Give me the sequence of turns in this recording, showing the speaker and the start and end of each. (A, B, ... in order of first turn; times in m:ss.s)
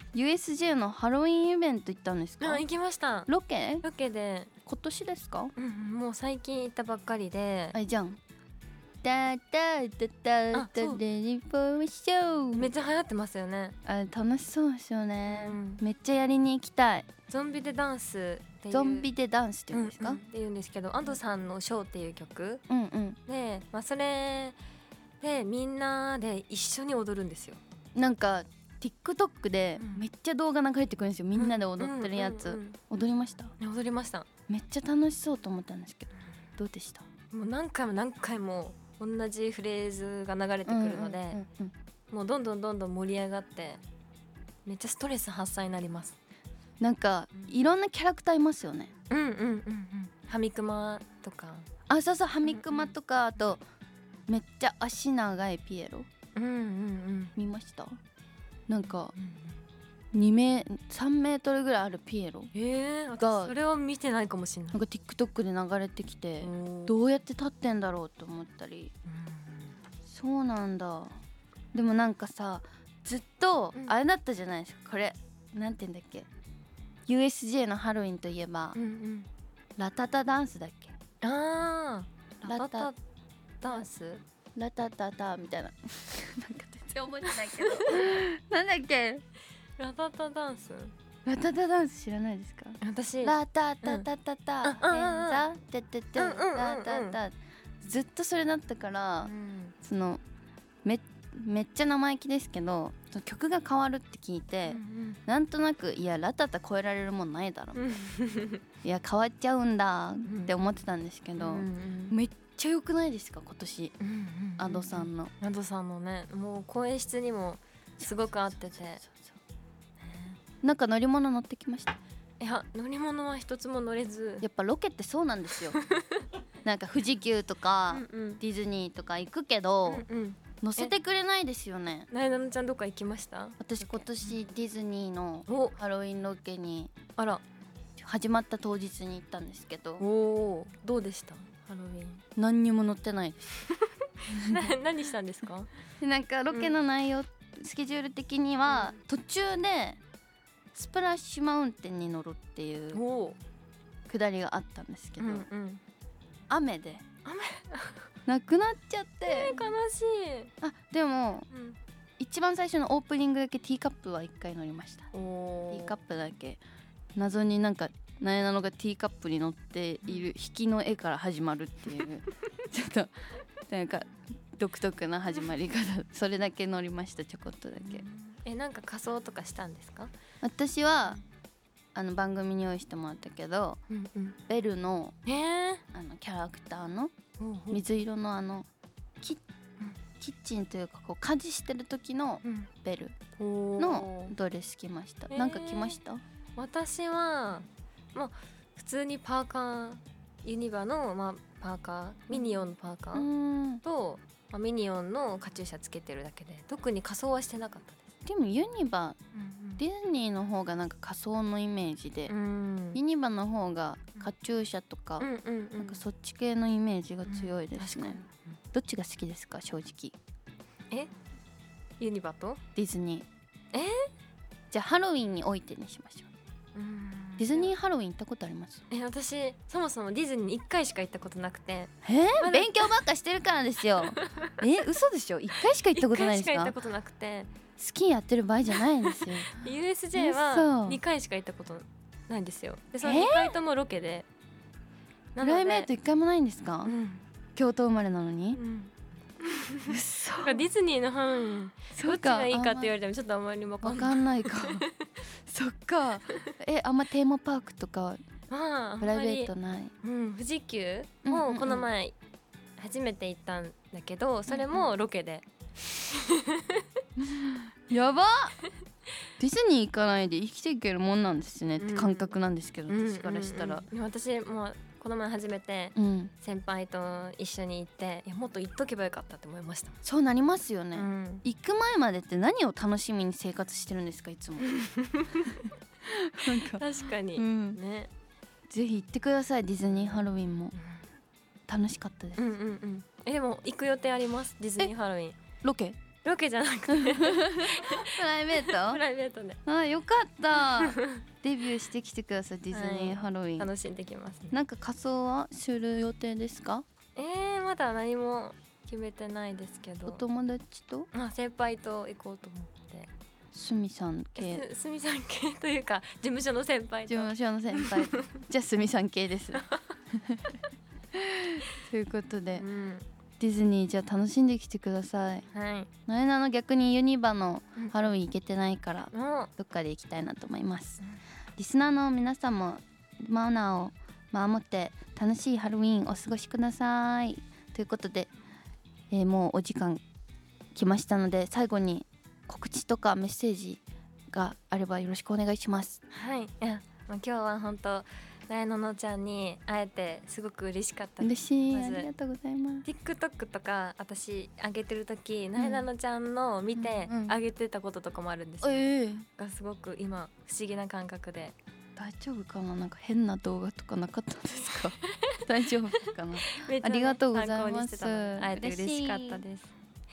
0:00.1-0:02.6 A
0:02.4-0:03.3 B
0:03.3-0:03.8 A
0:03.8-0:04.5 B
0:04.7-0:05.5 A
0:05.6-0:07.8 B
0:07.7-0:08.2 A
0:09.0-0:12.7 A
0:10.5-0:11.0 B
0:12.5-0:13.8 B
0:13.8-0:17.1 A
0:15.3-0:15.8 B
0:17.3-0:19.1 B
0:18.7-0:20.2 A
0:19.7-0:22.6 B
0:22.7-0:23.2 A
0:23.3-0:24.6 B
0:25.2-0:27.6 B
0:28.0-0:33.6 A
0:31.4-0:32.8 B
0:33.6-0:34.3 B
0:34.5-0:37.1 A
0:37.3-0:41.4 B
0:40.7-0:41.7 A
0:42.1-0:43.8 B
0:44.7-0:46.2 B
0:46.8-0:48.9 A
0:49.1-0:51.7 B
0:51.9-0:53.6 A
0:52.5-0:52.9 B
0:54.3-0:56.1 A
0:56.4-0:57.3 B
0:57.4-0:58.0 A
0:58.7-0:59.1 A
0:59.2-0:59.6 B
1:00.1-1:02.5 A
1:02.5-1:04.8 B
1:03.2-1:03.6 A
1:04.7-1:08.9 A
1:06.4-1:06.9 B
1:09.1-1:09.8 B
1:10.0-1:11.2 A
1:11.7-1:16.3 A
1:17.1-1:18.8 A
1:18.8-1:19.3 B
1:19.8-1:21.0 A
1:21.2-1:23.0 B
1:22.4-1:22.9 A
1:23.6-1:24.2 B
1:24.6-1:29.2 A
1:27.2-1:28.1 B
1:29.8-1:30.9 B
1:31.2-1:40.2 A
1:32.8-1:34.1 B
1:34.6-1:35.4 B
1:36.2-1:37.2 B
1:39.2-1:39.7 B
1:40.8-1:48.0 A
1:44.7-1:45.2 B
1:47.8-1:48.6 B
1:48.8-1:54.0 A
1:50.2-1:50.5 B
1:51.4-1:52.2 B
1:54.0-1:59.0 B
1:54.6-1:55.3 A
1:58.0-1:59.4 A
2:00.0-2:00.4 B
2:00.6-2:02.0 A
2:02.4-2:04.5 B
2:04.4-2:05.8 A
2:05.8-2:06.2 B
2:06.6-2:10.1 A
2:07.9-2:08.4 B
2:09.9-2:10.9 B
2:10.6-2:12.1 A
2:12.1-2:14.4 B
2:13.6-2:17.0 A
2:15.5-2:15.8 B
2:17.2-2:17.4 B
2:18.0-2:20.0 A
2:20.0-2:22.2 B
2:22.4-2:23.6 A
2:23.7-2:25.7 B
2:24.3-2:24.8 A
2:26.0-2:30.0 A
2:28.7-2:29.0 B
2:30.7-2:33.0 A
2:32.9-2:33.4 B
2:34.1-2:35.5 A
2:35.2-2:35.8 B
2:36.5-2:37.0 A
2:37.2-2:38.1 B
2:38.3-2:39.7 A
2:39.3-2:40.5 B
2:40.6-2:41.5 A
2:41.5-2:41.8 B
2:42.2-2:45.1 A
2:45.1-2:46.0 B
2:45.7-2:46.6 A
2:47.2-2:58.0 A
2:57.8-3:00.1 B
3:00.4-3:01.2 A
3:02.0-3:03.8 A
3:03.9-3:04.4 B
3:04.5-3:05.2 A
3:05.3-3:05.8 B
3:05.9-3:07.1 A
3:07.4-3:07.8 B
3:07.7-3:08.7 A
3:10.2-3:13.2 A
3:12.4-3:12.7 B
3:13.4-3:14.3 B
3:13.8-3:16.2 A
3:15.3-3:16.0 B
3:16.6-3:23.3 B
3:22.3-3:22.6 A
3:23.1-3:23.8 A
3:23.8-3:28.0 B
3:28.2-3:29.2 A
3:29.3-3:29.8 B
3:29.8-3:32.3 A
3:32.3-3:33.0 B
3:32.9-3:40.2 A
3:35.2-3:36.0 B
3:37.3-3:38.5 B
3:42.0-3:42.6 B
3:42.8-3:43.3 A
3:43.7-3:44.1 B
3:44.7-3:46.3 A
3:46.8-3:47.7 B
3:47.4-3:48.8 A
3:48.9-3:52.9 B
3:52.0-3:56.8 A
3:54.0-3:54.5 B
3:55.9-3:57.5 B
3:57.8-4:01.0 A
3:59.0-4:04.3 B
4:03.0-4:03.6 A
4:05.4-4:05.9 B
4:05.4-4:06.9 A
4:06.9-4:07.2 B
4:07.6-4:08.6 A
4:08.5-4:15.1 B
4:09.9-4:10.6 A
4:12.0-4:12.9 A
4:13.8-4:14.9 A
4:15.4-4:18.2 A
4:18.5-4:22.2 B
4:19.0-4:19.9 A
4:21.2-4:21.9 A
4:22.8-4:26.8 B
4:24.5-4:24.9 A
4:27.2-4:28.5 A
4:29.4-4:33.9 A
4:31.8-4:32.4 B
4:32.9-4:40.0 B
4:36.0-4:36.3 A
4:40.0-4:44.7 A
4:41.0-4:41.4 B
4:44.6-4:45.7 B
4:46.0-4:47.8 A
4:46.4-4:48.1 B
4:48.7-4:50.8 A
4:49.9-4:51.0 B
4:51.7-4:52.4 A
4:52.4-4:55.4 B
4:55.6-4:56.0 A
4:56.2-4:59.6 B
4:56.9-4:59.0 A
4:59.7-5:03.7 A
5:00.8-5:01.2 B
5:02.7-5:04.6 B
5:04.5-5:06.8 A
5:07.2-5:10.2 B
5:10.1-5:11.1 A
5:11.1-5:13.1 B
5:13.5-5:14.7 A
5:14.4-5:18.3 B
5:17.1-5:20.5 A
5:21.1-5:22.6 A
5:22.5-5:23.1 B
5:23.4-5:25.5 A
5:25.5-5:25.9 B
5:26.1-5:31.0 A
5:29.1-5:29.5 B
5:31.6-5:38.3 A
5:39.1-5:40.0 A
5:40.7-5:46.0 A
5:46.1-5:52.1 B
5:51.2-5:52.9 A
5:52.8-5:58.8 B
5:55.6-5:55.9 A
5:56.8-5:57.4 A
5:58.6-5:59.3 A
5:59.4-6:01.6 B
6:02.0-6:09.4 A
6:04.6-6:09.8 B